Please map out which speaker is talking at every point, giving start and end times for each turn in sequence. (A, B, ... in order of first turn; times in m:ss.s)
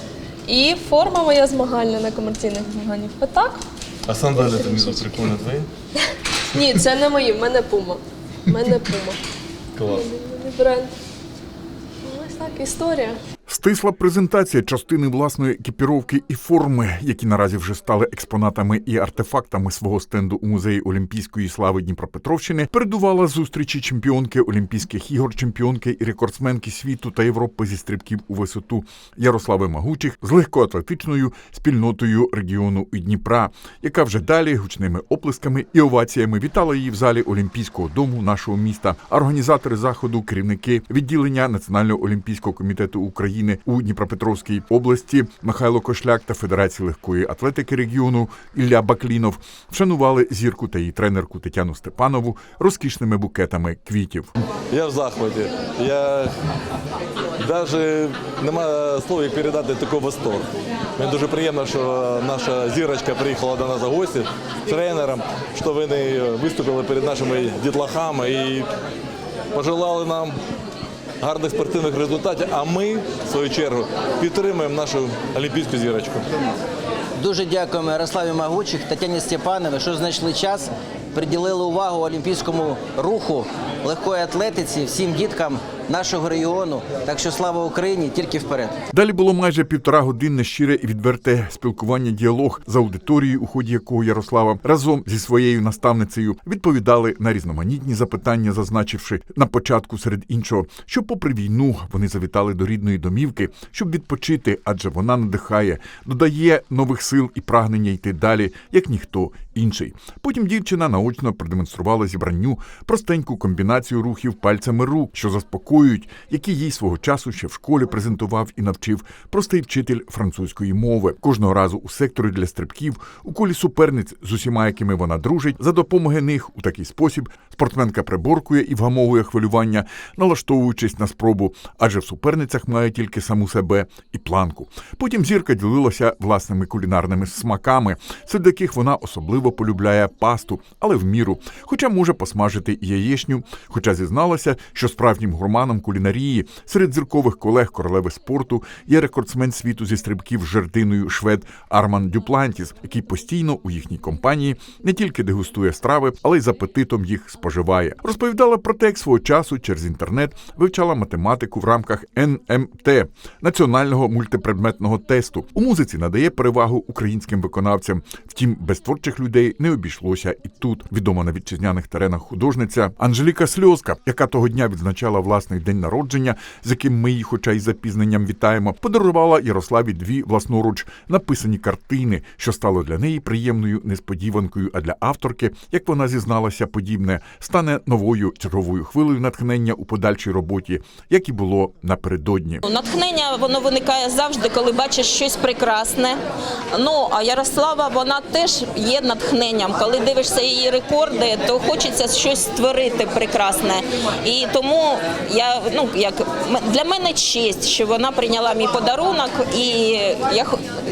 0:00.5-0:03.6 A
0:04.1-0:05.7 B
0:04.4-0:05.2 A
0:06.5-0:09.2 A
0:09.8-0:10.0 B
0:09.9-0:10.9 A
0:12.0-0:13.2 A
0:13.5-0:54.3 C
0:54.7-0:56.3 B
0:57.4-1:08.7 B
1:09.5-1:10.4 B
1:11.2-1:16.3 B
1:17.2-1:28.7 D
1:28.9-3:12.6 C
3:12.6-3:16.2 E
3:16.7-3:30.6 E